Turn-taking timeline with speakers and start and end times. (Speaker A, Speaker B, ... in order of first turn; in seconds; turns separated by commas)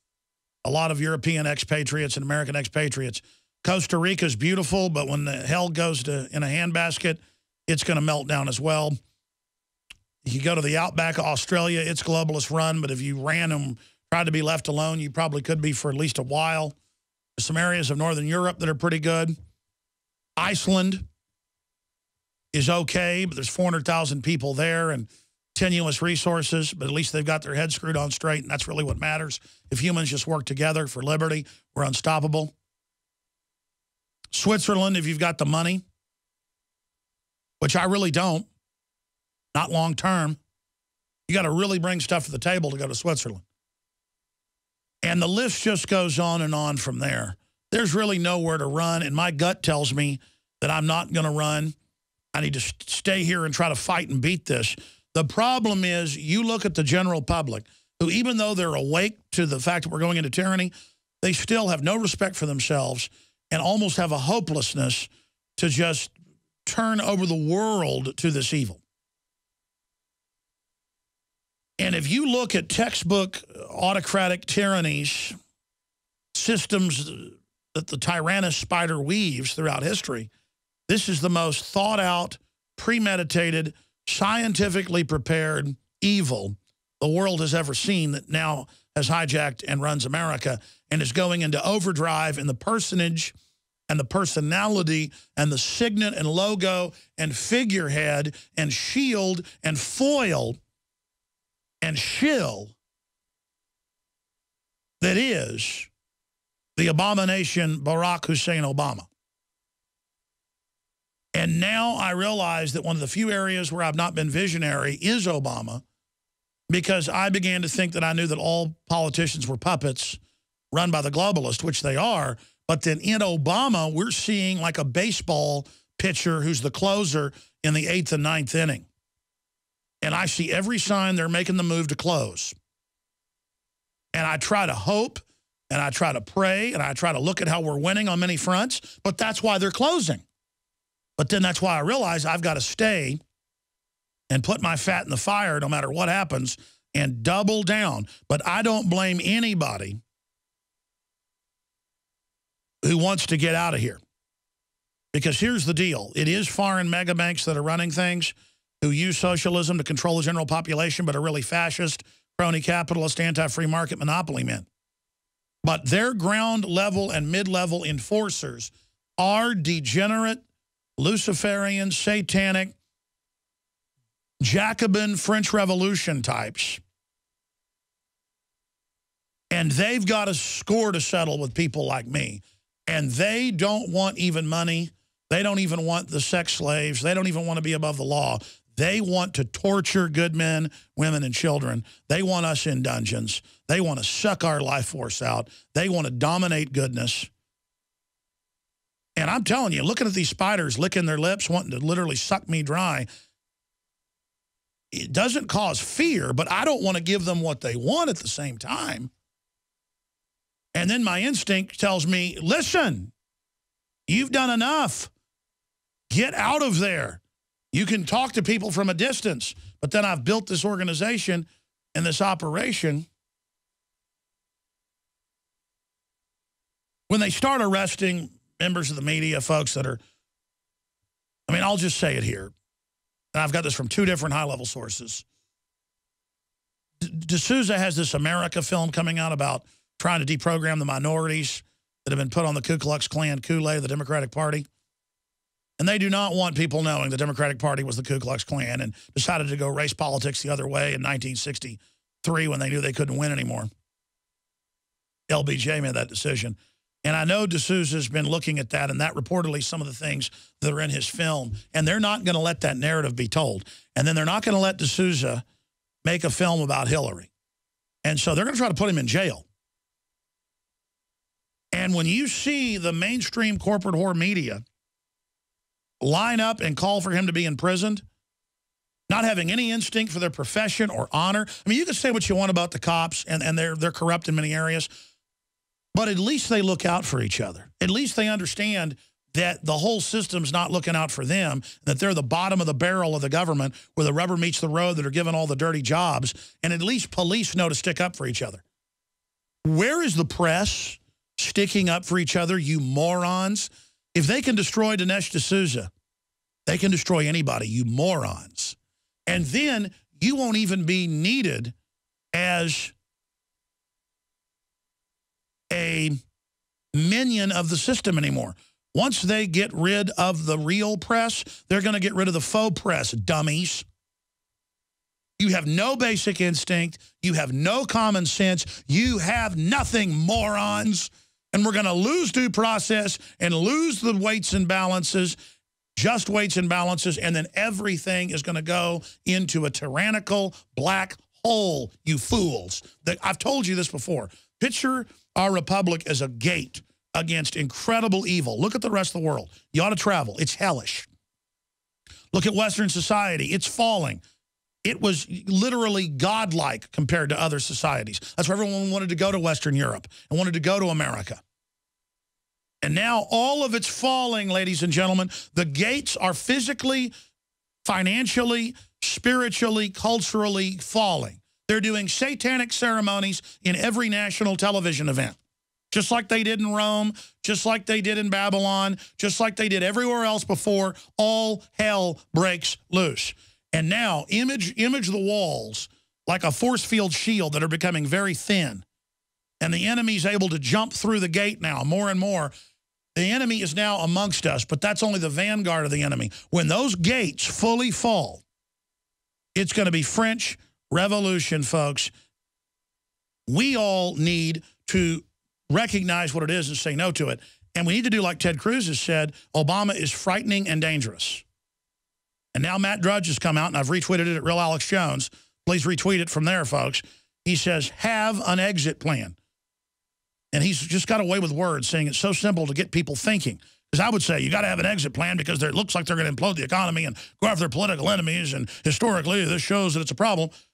Speaker A: 0.6-9.0, Speaker A: 10.2-16.7, Speaker A: 17.4-19.3, Speaker A: 20.4-21.0, Speaker A: 22.5-32.5, Speaker A: 34.3-35.8, Speaker A: 37.6-38.5, Speaker A: 39.5-40.4, Speaker A: 41.3-43.4, Speaker A: 45.0-51.7, Speaker A: 52.3-66.1, Speaker A: 66.7-68.8, Speaker A: 71.8-75.3, Speaker A: 76.3-80.3, Speaker A: 80.9-93.3, Speaker A: 93.9-100.6, Speaker A: 101.8-102.8, Speaker A: 105.0-105.9, Speaker A: 106.8-109.1, Speaker A: 111.3-115.8, Speaker A: 116.7-120.2, Speaker A: 120.7-128.9, Speaker A: 130.0-132.6, Speaker A: 134.1-140.2, Speaker A: 141.2-143.2, Speaker A: 144.3-150.0, Speaker A: 152.8-154.0, Speaker A: 155.1-164.7, Speaker A: 165.6-170.4, Speaker A: 171.0-172.8, Speaker A: 174.4-176.8, Speaker A: 179.5-197.3, Speaker A: 199.2-203.1, Speaker A: 204.9-209.1, Speaker A: 210.7-213.1, Speaker A: 214.1-215.1, Speaker A: 216.1-217.2, Speaker A: 217.7-223.1, Speaker A: 227.1-230.0, Speaker A: 231.5-232.5, Speaker A: 233.3-235.2, Speaker A: 237.0-244.7, Speaker A: 245.8-253.7, Speaker A: 255.3-265.4, Speaker A: 266.0-267.3, Speaker A: 268.0-269.4, Speaker A: 271.7-274.6, Speaker A: 276.0-278.0, Speaker A: 279.1-284.9, Speaker A: 285.9-298.6, Speaker A: 299.6-305.9, Speaker A: 306.6-311.7, Speaker A: 312.3-312.9, Speaker A: 315.7-316.2, Speaker A: 316.9-323.8, Speaker A: 325.4-335.4, Speaker A: 335.9-351.1, Speaker A: 352.3-354.2, Speaker A: 354.8-361.4, Speaker A: 362.8-367.1, Speaker A: 367.8-375.4, Speaker A: 375.9-388.8, Speaker A: 389.6-392.5, Speaker A: 393.1-398.4, Speaker A: 399.6-402.1, Speaker A: 403.5-411.4, Speaker A: 412.5-419.4, Speaker A: 420.5-430.5